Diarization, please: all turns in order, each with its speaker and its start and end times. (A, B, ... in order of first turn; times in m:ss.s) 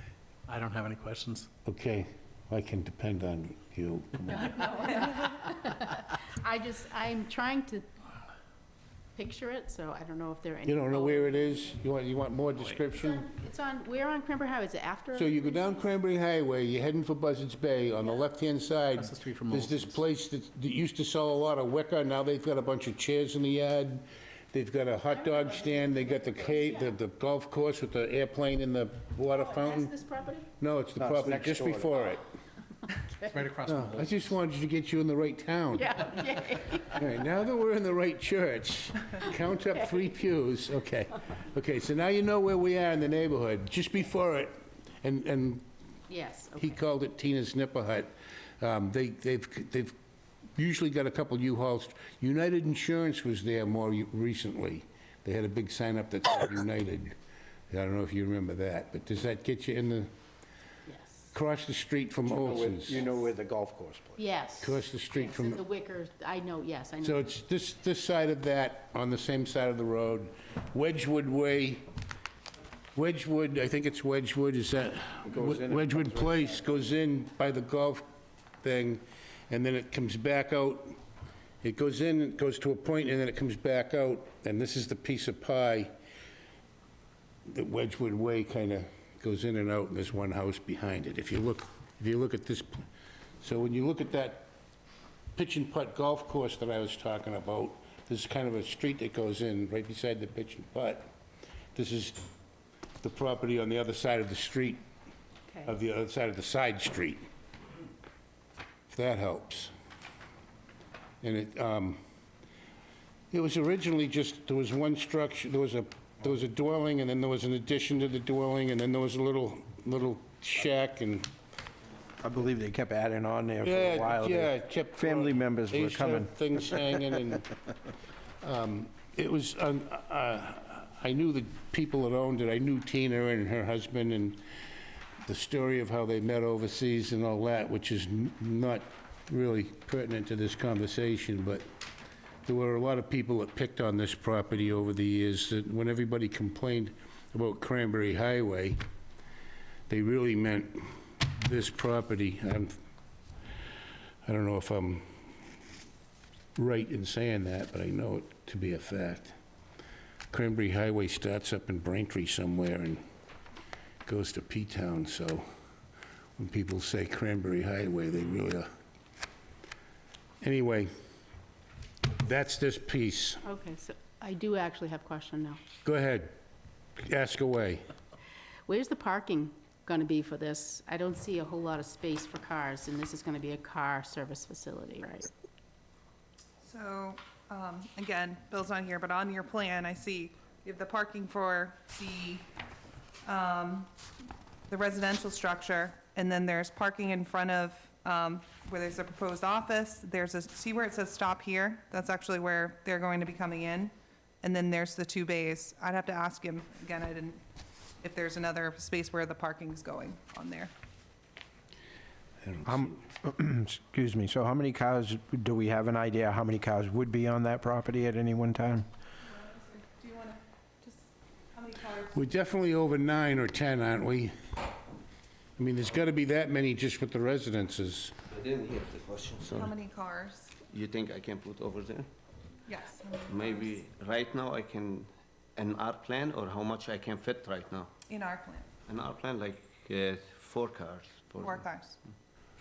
0:00.5-0:01.5 A
0:01.6-0:04.9 B
0:04.5-0:07.9 C
0:09.1-0:11.8 C
0:10.6-0:13.2 B
0:12.6-0:12.8 A
0:12.8-0:15.9 C
0:15.2-0:30.0 B
0:18.9-0:20.0 A
0:25.1-0:26.9 C
0:29.3-0:30.5 C
0:30.6-0:32.2 B
0:31.0-0:31.9 D
0:32.9-0:33.2 C
0:33.2-0:34.4 A
0:33.6-0:36.2 B
0:35.7-0:37.0 C
0:36.8-0:45.6 B
0:46.1-0:46.8 C
0:46.6-0:49.9 B
0:50.6-0:57.2 B
0:57.7-1:00.1 B
1:00.9-1:01.3 C
1:01.3-1:03.1 B
1:02.3-1:04.2 D
1:04.2-1:07.3 C
1:04.6-1:05.6 B
1:07.0-1:11.8 B
1:12.9-1:18.0 B
1:15.2-1:16.6 D
1:18.6-1:20.9 B
1:21.6-1:25.9 B
1:27.5-1:32.8 B
1:33.4-1:34.5 B
1:35.4-1:41.1 B
1:41.7-1:42.2 B
1:43.0-1:44.8 B
1:45.6-1:47.2 B
1:48.9-1:49.7 B
1:51.2-1:52.0 B
1:53.3-2:01.3 B
2:02.2-2:06.3 D
2:03.6-2:07.5 B
2:08.4-2:14.4 B
2:15.2-2:21.6 B
2:22.4-2:28.8 B
2:29.9-2:32.8 B
2:34.2-2:35.0 B
2:36.6-2:39.3 B
2:40.3-2:43.0 B
2:44.0-2:45.4 B
2:46.4-2:48.7 B
2:50.4-2:50.9 B
2:52.1-2:53.4 B
2:53.4-2:55.6 C
2:55.8-2:56.3 B
2:57.0-2:57.8 B
2:58.7-3:05.3 C
3:06.6-3:12.4 E
3:13.2-3:13.9 E
3:14.7-3:27.4 E
3:28.0-3:30.7 E
3:32.4-3:33.0 B
3:32.6-3:38.9 D
3:39.2-3:42.2 E
3:42.1-3:44.3 B
3:45.6-3:48.1 B
3:48.3-3:49.7 F
3:49.5-3:50.6 E
3:50.7-3:52.1 F
3:52.7-3:53.8 E
3:53.3-3:57.9 F
3:58.1-3:58.7 E
3:58.8-4:01.6 F
4:01.4-4:02.0 E